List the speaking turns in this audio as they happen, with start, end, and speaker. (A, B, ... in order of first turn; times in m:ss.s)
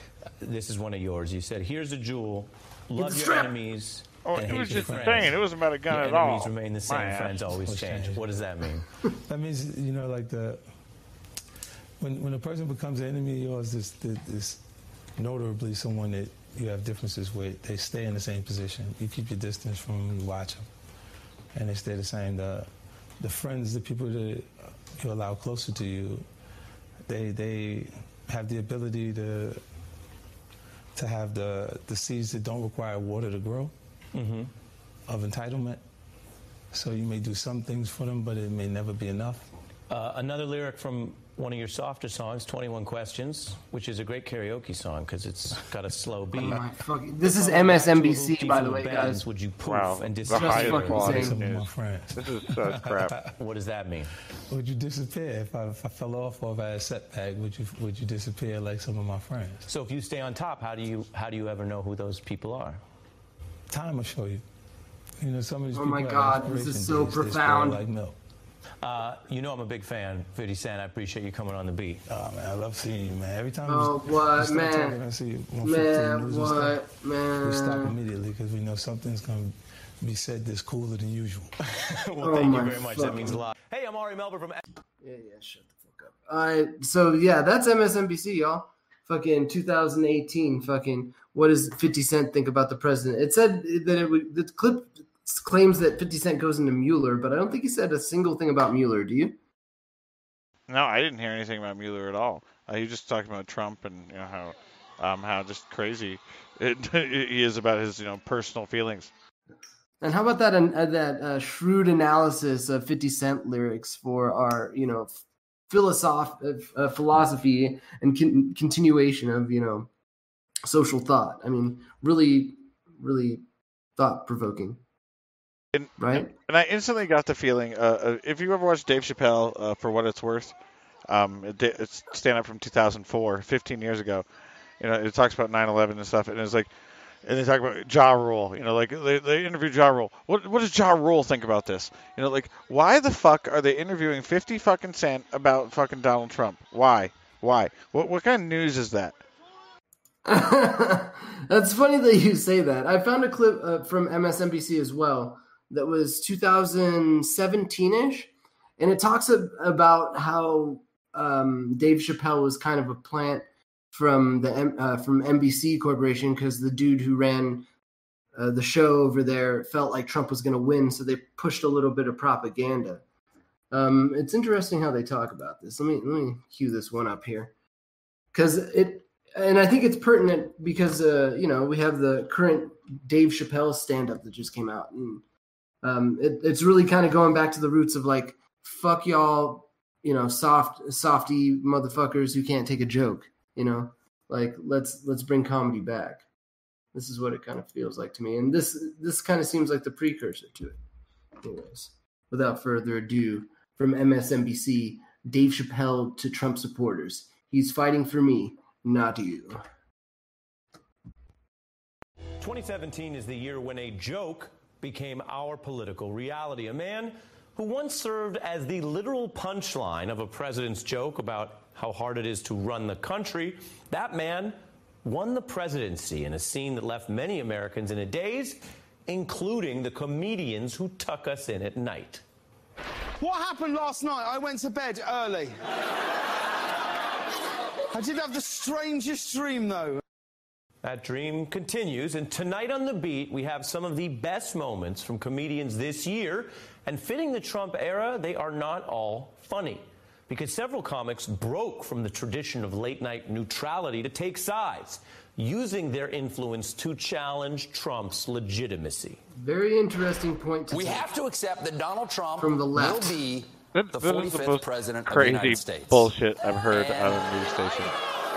0:00.4-0:05.3 A
0:03.0-0:03.5 B
0:04.3-0:07.4 C
0:04.4-0:05.3 D
0:05.9-0:08.9 A
0:07.6-0:08.4 D
0:09.3-0:10.6 D
0:12.0-0:14.6 D
0:15.2-0:20.7 D
0:21.5-0:22.7 D
0:23.2-0:26.2 D
0:27.1-0:29.6 D
0:30.9-0:33.7 D
0:34.1-0:34.5 A
0:35.1-0:35.8 D
0:36.7-0:39.5 D
0:39.9-0:46.6 A
0:46.3-0:49.2 B
0:47.2-0:51.3 A
0:49.6-0:53.1 C
0:50.3-0:51.4 B
0:51.0-0:53.3 D
0:53.4-0:54.1 A
0:54.5-0:59.7 D
0:59.7-1:02.8 A
1:03.7-1:04.4 D
1:05.2-1:08.2 D
1:05.7-1:07.8 B
1:08.8-1:12.0 A
1:12.1-1:16.8 D
1:13.7-1:15.0 B
1:15.6-1:17.9 B
1:17.4-1:21.5 D
1:21.7-1:24.6 A
1:22.2-1:23.4 B
1:25.0-1:39.4 B
1:40.7-1:49.1 C
1:50.0-1:59.9 B
2:00.6-2:03.4 B
2:04.0-2:04.8 B
2:05.7-2:10.6 C
2:06.0-2:06.3 B
2:11.1-2:14.2 C
2:14.8-2:16.7 C
2:17.2-2:29.1 C
2:30.2-2:47.7 B
2:48.3-2:53.0 B
2:53.7-2:57.5 B
2:58.3-3:05.2 B
3:05.8-3:16.2 B
3:16.9-3:20.8 B
3:21.4-3:29.6 B
3:32.4-3:52.2 A
3:53.2-3:55.5 E
3:57.9-3:59.9 E
4:00.8-4:19.2 A
4:19.4-4:21.1 B
4:20.7-4:26.1 F
4:22.4-4:23.2 B
4:23.7-4:27.9 C
4:26.7-4:27.9 F